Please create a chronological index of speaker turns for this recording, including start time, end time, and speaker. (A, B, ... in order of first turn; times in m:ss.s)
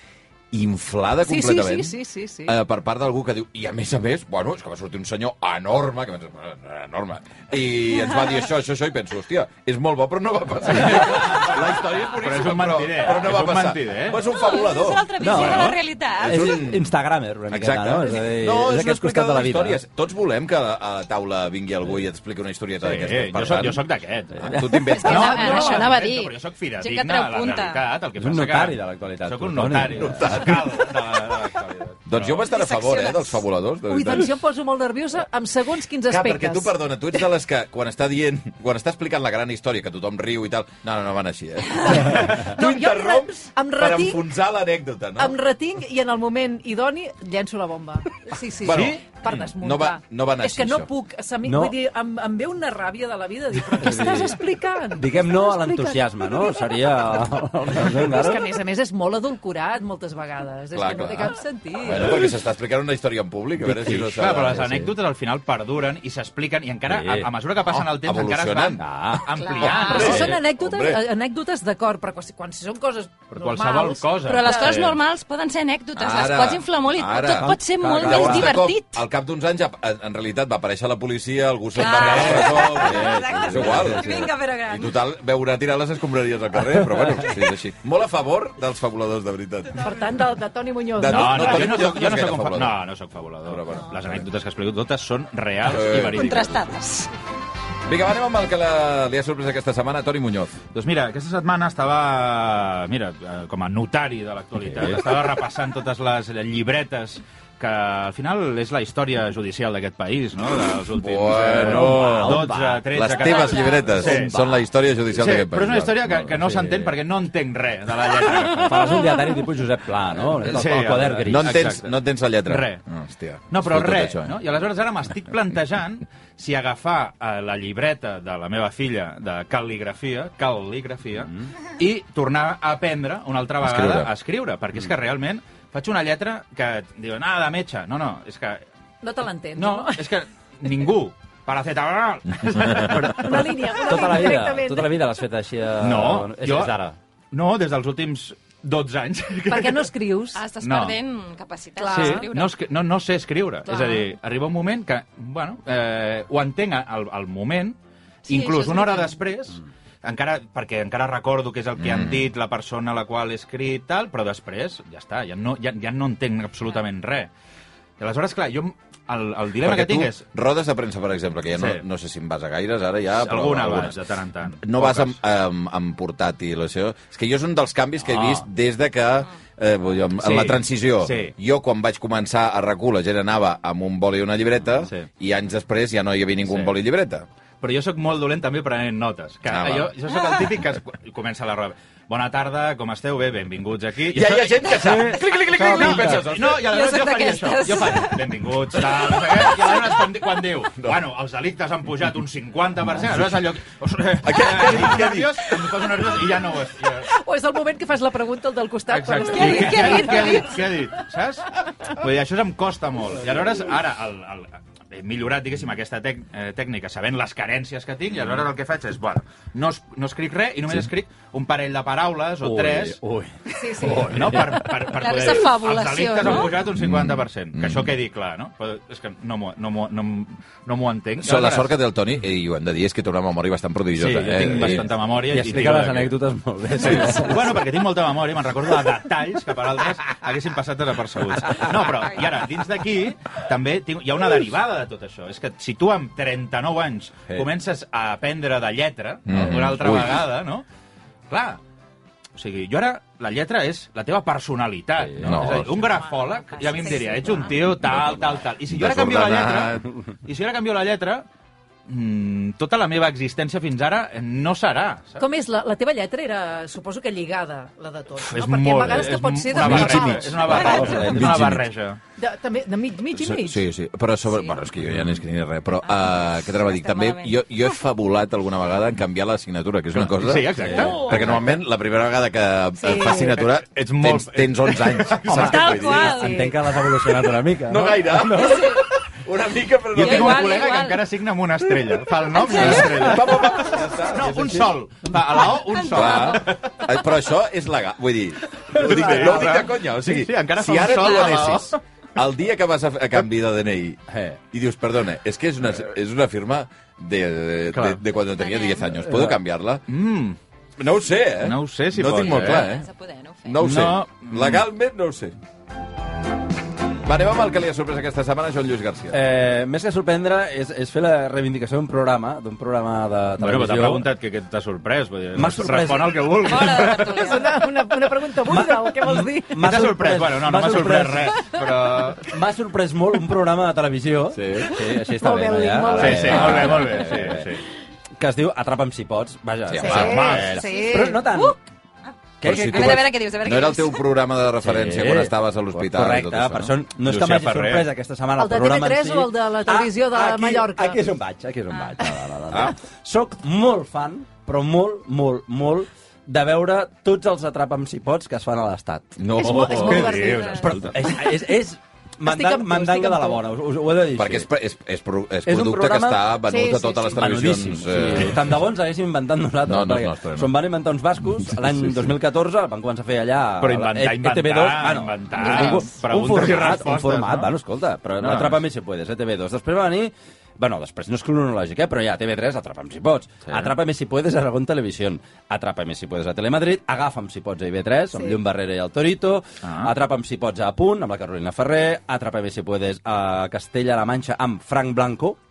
0:00.5-0:15.6 A
0:01.2-0:02.6 B
0:10.7-0:14.2 C
0:14.3-0:16.5 D
0:15.2-0:19.8 E
0:16.2-0:16.9 A
0:17.5-0:23.8 A
0:22.8-0:24.5 C
0:24.4-0:25.0 E
0:24.4-0:25.6 A
0:25.0-0:27.8 D
0:25.0-0:25.9 B
0:25.1-0:32.5 C
0:28.2-0:30.4 E
0:29.9-0:31.2 A
0:32.1-0:34.3 A
0:32.5-0:33.4 D
0:33.9-0:36.7 B
0:36.1-0:45.4 A
0:41.9-0:44.2 B
0:45.2-0:57.0 B
0:48.6-0:50.9 A
0:48.7-0:49.0 C
0:51.4-0:51.7 E
0:53.7-0:54.4 E
0:55.0-0:58.5 E
0:57.7-1:02.3 B
1:00.7-1:04.7 A
1:03.6-1:04.9 E
1:04.1-1:10.4 C
1:06.9-1:07.3 E
1:07.7-1:08.8 A
1:08.8-1:09.3 E
1:09.3-1:10.1 D
1:09.7-1:11.0 A
1:09.8-1:14.8 B
1:09.9-1:10.3 E
1:13.3-1:15.0 C
1:14.2-1:19.0 D
1:16.0-1:29.9 A
1:17.4-1:18.6 E
1:21.8-1:24.9 D
1:22.1-1:24.3 E
1:26.7-1:27.4 E
1:29.8-1:31.9 B
1:31.0-1:32.8 A
1:31.0-1:36.6 C
1:33.5-1:34.2 A
1:35.6-1:36.6 A
1:36.1-1:37.1 D
1:37.9-1:40.6 A
1:40.7-1:54.4 C
1:44.6-1:45.0 E
1:50.9-1:56.3 A
1:51.5-1:52.8 E
1:53.2-1:53.9 D
1:53.9-1:54.6 E
1:55.1-1:59.0 C
1:56.3-1:56.9 E
1:58.6-2:01.7 E
2:00.4-2:02.0 C
2:01.3-2:04.4 A
2:02.5-2:02.8 C
2:03.5-2:18.6 C
2:13.6-2:14.1 A
2:19.0-2:20.0 B
2:19.6-2:23.4 C
2:22.8-2:27.0 E
2:23.1-2:24.9 B
2:25.8-2:26.8 C
2:27.3-2:29.9 C
2:29.5-2:30.4 B
2:30.4-2:32.5 D
2:30.6-2:31.0 C
2:31.8-2:32.3 B
2:31.9-2:32.2 E
2:32.0-2:47.3 C
2:33.7-2:34.1 B
2:38.5-2:38.8 D
2:38.5-2:39.0 B
2:41.8-2:42.3 A
2:48.0-2:50.2 C
2:49.6-2:54.0 A
2:51.5-2:51.8 C
2:53.2-2:55.2 C
2:54.6-3:07.3 A
2:58.1-2:58.5 C
3:00.2-3:01.3 C
3:04.8-3:05.1 C
3:06.4-3:06.8 C
3:07.6-3:14.9 C
3:09.5-3:09.9 A
3:14.1-3:16.6 A
3:14.8-3:16.2 E
3:15.7-3:27.1 C
3:16.6-3:18.2 D
3:24.2-3:25.5 A
3:27.1-3:30.7 B
3:28.9-3:43.0 C
3:29.3-3:30.6 D
3:42.4-3:44.8 E
3:43.6-3:44.2 B
3:43.8-3:51.7 C
3:45.0-3:46.6 D
3:46.6-3:47.9 A
3:51.2-3:54.9 A
3:54.0-3:57.5 E
3:54.2-3:56.2 C
3:56.8-4:10.6 C
4:09.3-4:10.3 A
4:11.3-4:11.6 C
4:12.4-4:21.3 C
4:15.0-4:15.8 E
4:15.2-4:15.8 A
4:15.9-4:17.4 D
4:16.8-4:17.5 B
4:18.1-4:19.9 A
4:21.9-4:25.2 C
4:25.2-4:31.0 B
4:28.2-4:32.0 C
4:29.6-4:31.7 A
4:30.4-4:31.5 E
4:32.2-4:33.6 B
4:33.1-4:46.3 A
4:35.8-4:37.4 D
4:39.9-4:41.4 C
4:40.6-4:41.0 E
4:42.8-4:43.4 B
4:43.6-4:45.7 C
4:45.3-4:46.5 D
4:45.8-4:48.7 E
4:46.1-4:46.6 B
4:47.7-4:50.6 A
4:48.5-4:48.8 D
4:50.0-4:56.7 C
4:50.0-4:51.0 D
4:52.3-4:53.4 D
4:52.5-4:54.6 A
4:54.3-4:54.7 E
4:55.8-4:56.4 D
4:55.9-5:09.8 A
4:58.7-5:01.8 C
4:58.8-4:59.4 E
5:00.9-5:01.5 D
5:04.1-5:04.4 E
5:07.7-5:08.0 C
5:08.3-5:08.9 D
5:09.1-5:09.3 E
5:09.9-5:10.4 C
5:10.8-5:12.9 A
5:11.4-5:12.7 C
5:12.3-5:13.6 D
5:13.4-5:15.4 A
5:13.6-5:14.6 C
5:17.0-5:19.2 A
5:19.1-5:24.1 E
5:23.4-5:27.4 C
5:25.4-5:26.2 E
5:26.4-5:27.5 D
5:26.9-5:29.6 B
5:28.4-5:31.4 E
5:29.6-5:32.3 C
5:32.2-5:37.5 E
5:34.3-5:34.8 A
5:34.8-5:36.8 B
5:36.0-5:37.6 C
5:36.1-5:36.9 A
5:38.2-5:41.6 E
5:39.7-5:40.4 A
5:39.8-5:41.2 B
5:39.9-5:40.7 C
5:40.8-5:44.0 D
5:42.4-5:43.1 E
5:42.4-5:46.7 A
5:44.6-6:04.5 E
5:47.0-5:47.9 C
5:48.4-5:51.0 B
5:51.7-5:52.0 D
5:59.2-6:00.5 A
5:59.4-6:00.6 B
5:59.9-6:00.9 C
6:00.3-6:00.6 D
6:02.2-6:03.4 B
6:04.1-6:08.6 A
6:05.4-6:06.3 E
6:06.5-6:07.2 B
6:07.1-6:35.4 E
6:09.6-6:10.6 A
6:11.4-6:12.1 A
6:13.6-6:17.5 C
6:18.2-6:18.6 C
6:29.6-6:29.9 C